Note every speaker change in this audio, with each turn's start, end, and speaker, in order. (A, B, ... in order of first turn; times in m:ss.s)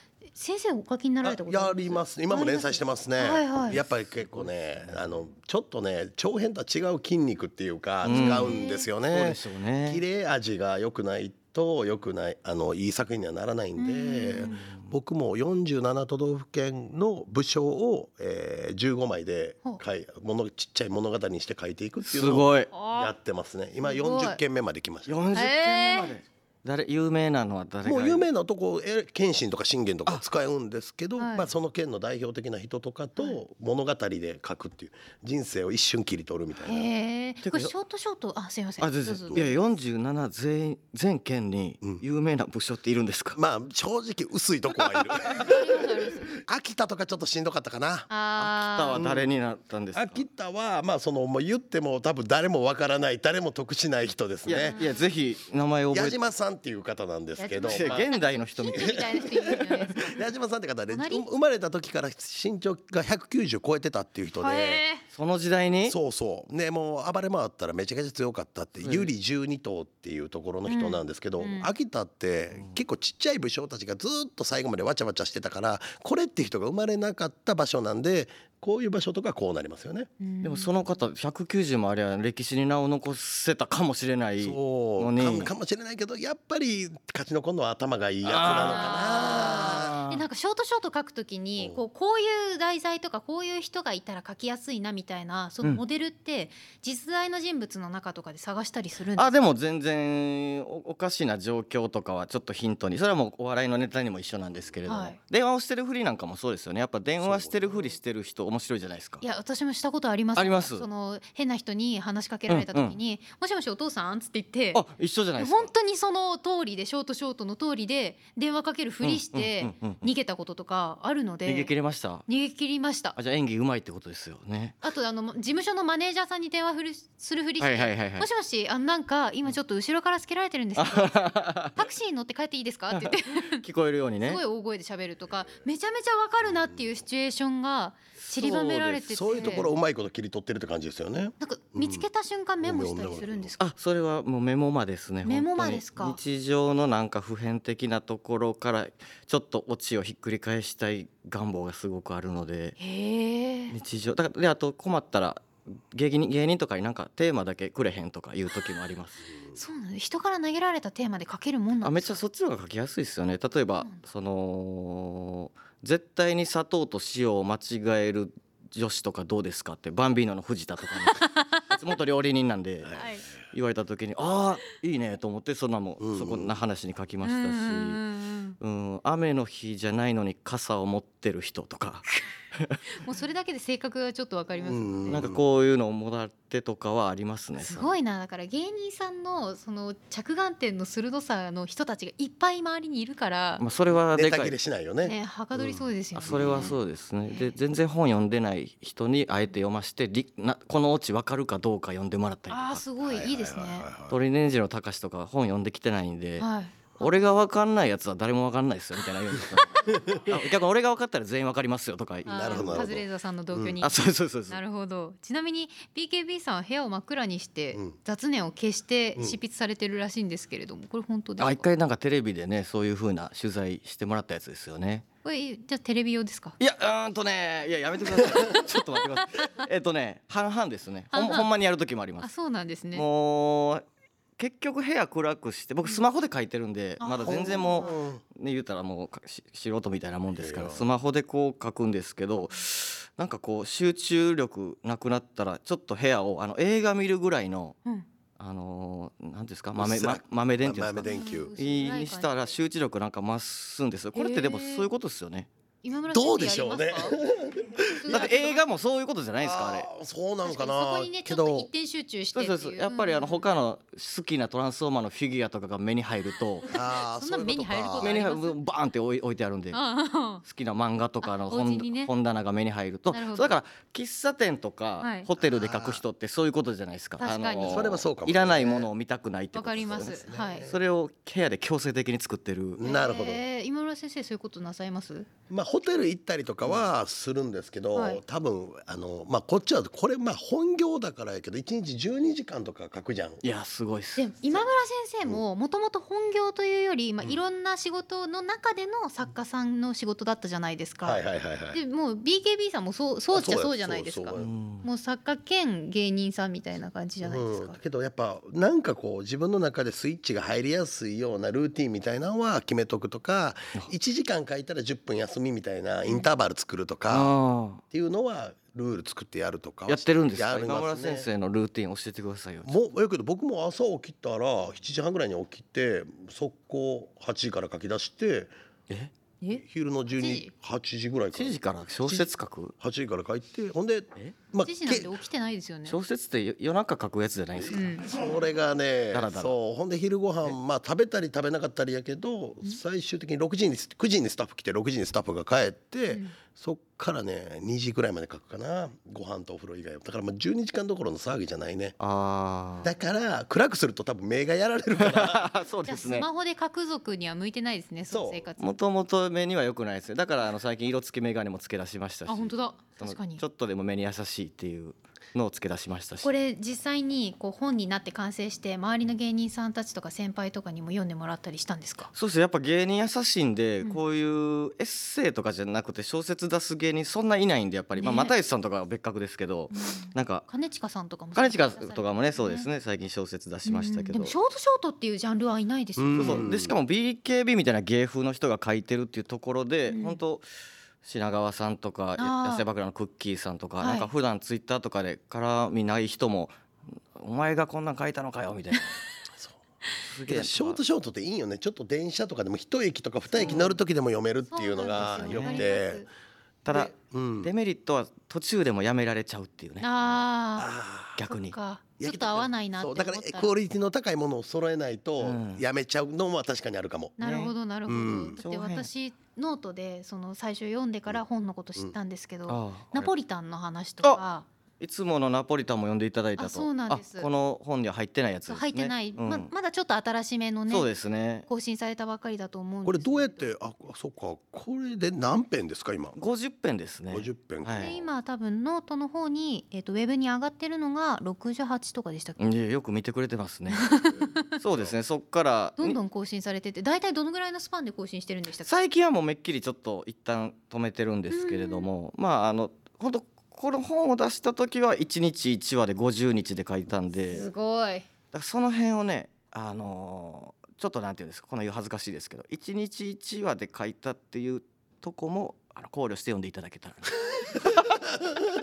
0:00.3-0:03.8 A
0:01.2-0:25.3 B
0:03.7-0:05.0 C
0:08.0-0:08.9 A
0:08.0-0:10.0 C
0:13.8-0:14.6 A
0:14.4-0:14.9 C
0:22.0-0:22.7 C
0:22.7-0:23.1 A
0:23.8-0:24.4 A
0:25.1-0:28.3 C
0:25.3-0:26.1 A
0:27.8-0:36.9 B
0:31.2-0:31.5 A
0:36.6-0:39.6 A
0:37.4-0:37.7 C
0:38.8-0:43.4 C
0:43.3-0:48.1 B
0:44.8-0:45.4 C
0:45.4-0:46.3 A
0:48.1-0:49.0 A
0:48.4-0:50.2 C
0:48.9-0:49.3 B
0:49.9-0:54.8 B
0:54.4-0:56.2 C
0:54.6-0:55.0 A
0:55.9-0:58.1 B
0:57.4-1:00.2 A
0:57.6-0:59.5 C
0:58.7-1:04.8 B
1:00.9-1:01.2 A
1:04.4-1:05.0 A
1:05.1-1:06.0 C
1:05.8-1:20.1 B
1:08.8-1:09.1 C
1:10.6-1:11.7 A
1:20.2-1:20.7 A
1:20.4-1:25.5 C
1:24.4-1:30.0 B
1:28.2-1:30.2 C
1:28.5-1:39.3 A
1:39.2-1:49.2 C
1:44.9-1:45.2 A
1:47.2-1:48.0 B
1:49.2-1:54.8 A
1:50.3-1:50.8 C
1:52.5-1:53.0 C
1:54.7-1:55.7 C
1:55.4-2:01.7 A
1:59.0-2:00.1 C
2:01.4-2:02.2 C
2:02.3-2:03.2 A
2:03.2-2:04.8 C
2:04.8-2:13.6 A
2:07.6-2:08.3 C
2:10.8-2:11.8 C
2:12.9-2:14.4 C
2:14.2-2:19.7 A
2:18.2-2:19.6 C
2:19.1-2:22.0 B
2:21.4-2:23.6 A
2:22.6-2:23.6 B
2:23.6-2:32.8 C
2:25.2-2:26.2 A
2:32.8-2:33.8 A
2:33.7-2:39.2 C
2:39.5-2:42.2 A
2:41.8-2:53.0 C
2:51.1-2:51.6 A
2:52.9-2:53.3 A
2:53.5-2:58.0 C
2:56.0-2:56.5 B
2:57.2-2:58.6 A
2:58.6-3:02.8 C
3:03.0-3:05.2 A
3:04.6-3:05.4 B
3:05.1-3:07.9 C
3:07.6-3:13.6 A
3:13.6-3:14.5 C
3:14.1-3:16.8 B
3:15.0-3:16.7 A
3:16.2-3:22.8 C
3:17.3-3:17.6 A
3:22.5-3:23.9 A
3:23.0-3:24.2 B
3:24.1-3:26.5 C
3:26.4-3:27.3 A
3:27.0-3:32.8 C
3:32.2-3:33.8 B
3:32.2-3:34.0 A
3:33.8-3:34.6 C
3:34.5-3:41.6 A
3:41.4-3:45.0 C
3:45.2-3:46.6 A
3:46.6-3:52.3 C
3:51.1-3:51.5 A
3:52.2-3:53.0 A
3:52.9-3:53.8 C
3:54.4-4:07.8 C
3:57.0-3:57.9 A
3:57.2-3:58.2 B
4:00.4-4:00.9 B
4:08.4-4:15.5 C
4:09.8-4:11.5 B
4:11.0-4:12.5 A
4:14.1-4:14.9 A
4:15.8-4:17.2 A
4:16.1-4:18.3 B
4:17.9-4:18.6 A
4:18.1-4:19.9 C
4:19.4-4:21.7 B
4:20.4-4:23.4 A
4:22.3-4:26.7 C
4:26.7-4:28.2 B
4:26.7-4:28.6 A
4:28.0-4:29.8 C
4:29.7-4:30.4 A
4:30.4-4:42.8 C
4:31.2-4:32.1 A
4:33.1-4:33.5 A
4:35.0-4:35.3 A
4:35.4-4:36.0 B
4:37.2-4:37.9 A
4:37.6-4:38.9 B
4:39.5-4:40.7 A
4:40.0-4:40.8 B
4:42.8-4:43.4 B
4:42.8-4:45.3 A
4:45.5-4:53.4 B
4:47.9-4:48.2 A
4:53.4-4:54.2 C
4:54.2-5:07.8 A
5:01.0-5:01.8 B
5:03.3-5:04.5 B
5:04.4-5:04.9 C
5:07.2-5:17.3 B
5:17.1-5:17.8 C
5:17.9-5:21.3 B
5:19.9-5:22.7 C
5:22.6-5:28.5 B
5:29.4-5:30.5 A
5:29.6-5:32.3 B
5:31.3-5:32.7 C
5:32.8-5:35.2 B
5:34.6-5:36.0 A
5:35.8-5:37.9 C
5:37.7-5:38.1 A
5:38.0-5:52.0 B
5:39.1-5:39.5 C
5:46.1-5:46.4 A
5:52.0-5:52.9 C
5:52.8-5:55.5 B
5:55.0-5:56.2 C
5:55.8-5:58.7 A
5:58.1-5:58.4 B
5:58.6-6:06.3 C
6:02.3-6:03.4 A
6:06.2-6:12.1 A
6:12.1-6:20.5 C
6:18.0-6:18.3 A
6:19.7-6:22.7 A
6:21.3-6:24.3 C
6:23.6-6:26.5 A
6:26.0-6:26.7 B
6:26.2-6:30.4 C
6:29.9-6:30.2 A
6:31.0-6:36.5 C
6:32.2-6:32.6 A
6:33.8-6:34.1 A
6:37.2-6:39.0 C
6:40.1-6:40.8 C
6:40.2-6:46.0 B
6:43.4-6:43.7 C
6:44.5-6:46.1 A
6:44.9-6:45.7 C
6:46.6-6:49.9 C
6:46.7-6:47.5 B
6:49.8-6:50.7 A
6:50.6-6:51.2 B
6:51.2-6:51.6 C
6:51.3-6:53.5 A
6:52.0-6:57.2 B
6:55.2-6:55.6 C
6:57.2-7:04.5 A
6:57.2-6:57.5 C
6:57.9-6:58.4 B
6:58.4-6:58.9 C
7:02.5-7:03.1 C
7:04.8-7:09.5 C
7:06.4-7:07.3 A
7:08.5-7:10.9 A
7:10.7-7:11.4 C
7:11.5-7:13.5 A
7:12.8-7:16.2 B
7:16.2-7:17.9 C
7:17.1-7:18.1 B
7:17.8-7:22.4 A
7:22.4-7:24.0 C
7:23.7-7:24.4 A
7:24.6-7:26.0 C
7:25.8-7:28.7 A
7:28.6-7:37.5 C
7:31.3-7:31.9 A
7:37.3-7:38.0 A
7:38.3-7:48.1 C
7:47.9-7:48.4 B